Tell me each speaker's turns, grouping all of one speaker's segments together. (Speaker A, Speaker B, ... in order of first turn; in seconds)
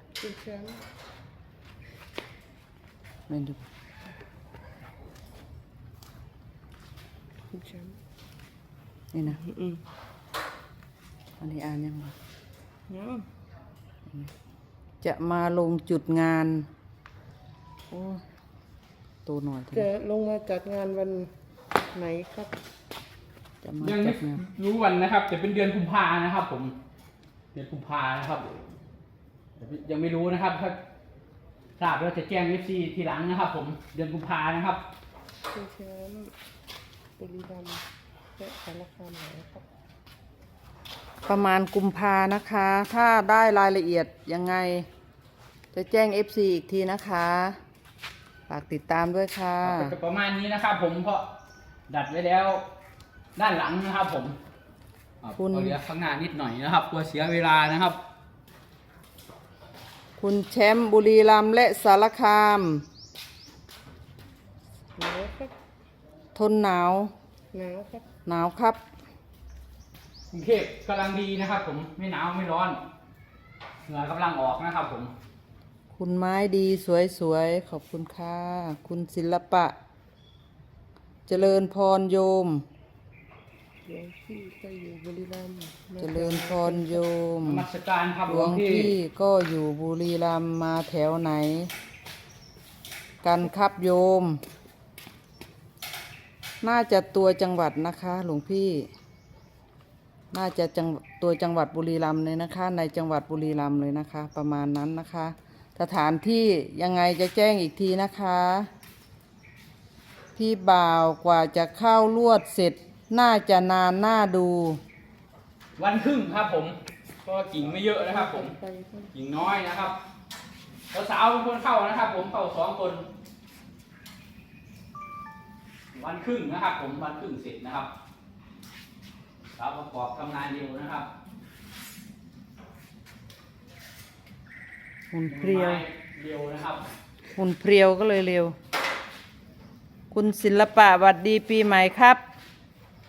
Speaker A: 0.2-0.8, 7.5-8.0, 9.2-9.8, 12.9-13.3, 19.7-21.3, 21.9-22.6, 35.5-36.4, 37.2-37.8, 38.4-39.7, 64.9-65.5, 67.5-68.1, 83.8-87.0, 117.8-119.1
Speaker B: 3.3-3.6, 9.1-9.4, 11.4-12.2, 15.0-16.7, 17.9-18.2, 19.2-19.9, 23.6-24.4, 41.3-44.9, 45.7-47.6, 48.5-49.9, 55.4-55.7, 60.2-62.9, 66.3-67.1, 68.2-68.8, 75.9-79.8, 81.3-82.7, 86.0-87.6, 88.3-91.7, 93.2-94.4, 96.6-98.9, 100.3-108.7, 110.3-114.8, 135.1-135.8, 137.3-138.6, 140.1-142.2
Speaker C: 23.8-26.7, 27.5-28.6, 29.6-30.8, 31.8-34.8, 49.6-51.3, 51.9-52.6, 53.4-54.4, 55.2-58.0, 70.3-72.8, 73.9-75.1, 87.4-88.9, 115.8-118.5, 119.1-120.0, 120.9-123.0, 125.9-127.9, 129.6-131.1, 135.3-136.9